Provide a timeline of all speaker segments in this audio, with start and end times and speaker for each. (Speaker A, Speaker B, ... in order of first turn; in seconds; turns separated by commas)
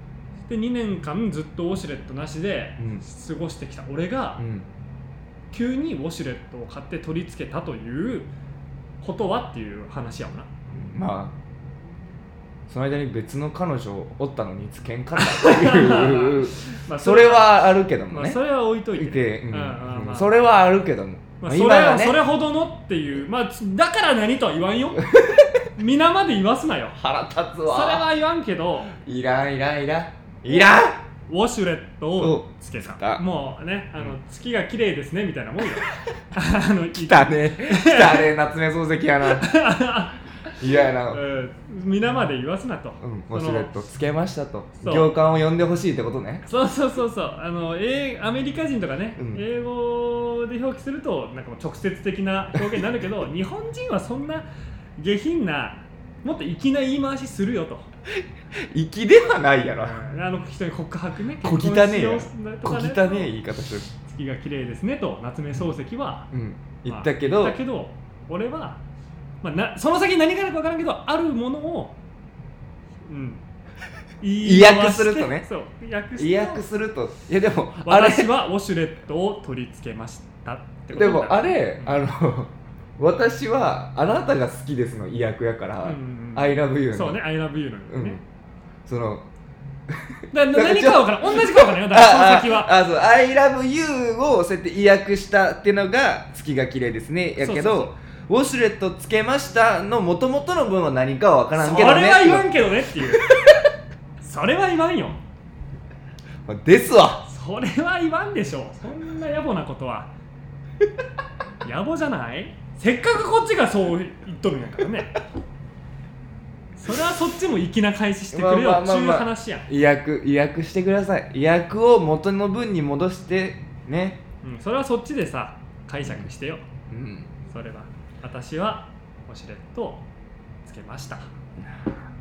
Speaker A: 0.5-4.4, Speaker B: 2.8-3.0, Speaker B: 4.4-4.7, Speaker A: 5.5-8.3, Speaker A: 9.0-10.5, Speaker B: 10.7-11.3, Speaker B: 12.7-18.4, Speaker A: 15.2-20.3, Speaker B: 18.9-22.2, Speaker A: 21.4-25.1, Speaker B: 25.1-25.5, Speaker A: 25.7-27.0, Speaker B: 27.0-28.1, Speaker A: 27.7-28.9, Speaker B: 28.9-31.0, Speaker A: 31.2-38.3, Speaker B: 32.2-33.2, Speaker B: 37.0-39.5, Speaker A: 39.2-40.2, Speaker B: 40.6-41.2, Speaker A: 41.1-43.7, Speaker B: 43.0-46.4, Speaker A: 44.8-45.1, Speaker A: 46.5-54.5, Speaker B: 49.2-49.4, Speaker A: 55.0-57.9, Speaker B: 58.6-60.0, Speaker A: 59.8-63.3, Speaker B: 61.4-63.9, Speaker A: 64.0-66.3, Speaker B: 66.3-67.6, Speaker A: 66.9-68.8, Speaker A: 69.4-72.0, Speaker A: 73.1-73.4, Speaker A: 74.2-76.7, Speaker B: 74.4-75.4, Speaker B: 76.2-78.3, Speaker A: 77.8-82.0, Speaker B: 80.9-87.2, Speaker A: 85.8-88.2, Speaker B: 87.9-88.2, Speaker B: 88.8-89.3, Speaker B: 89.9-102.5, Speaker A: 90.3-92.7, Speaker A: 97.4-97.9, Speaker A: 101.5-103.3, Speaker A: 104.2-105.2, Speaker B: 106.5-107.2, Speaker A: 107.2-110.1, Speaker A: 111.6-115.2, Speaker A: 116.8-119.7, Speaker B: 118.3-124.2, Speaker A: 124.4-126.6, Speaker B: 126.9-127.3, Speaker A: 127.5-130.0, Speaker A: 130.6-131.3, Speaker B: 131.6-131.9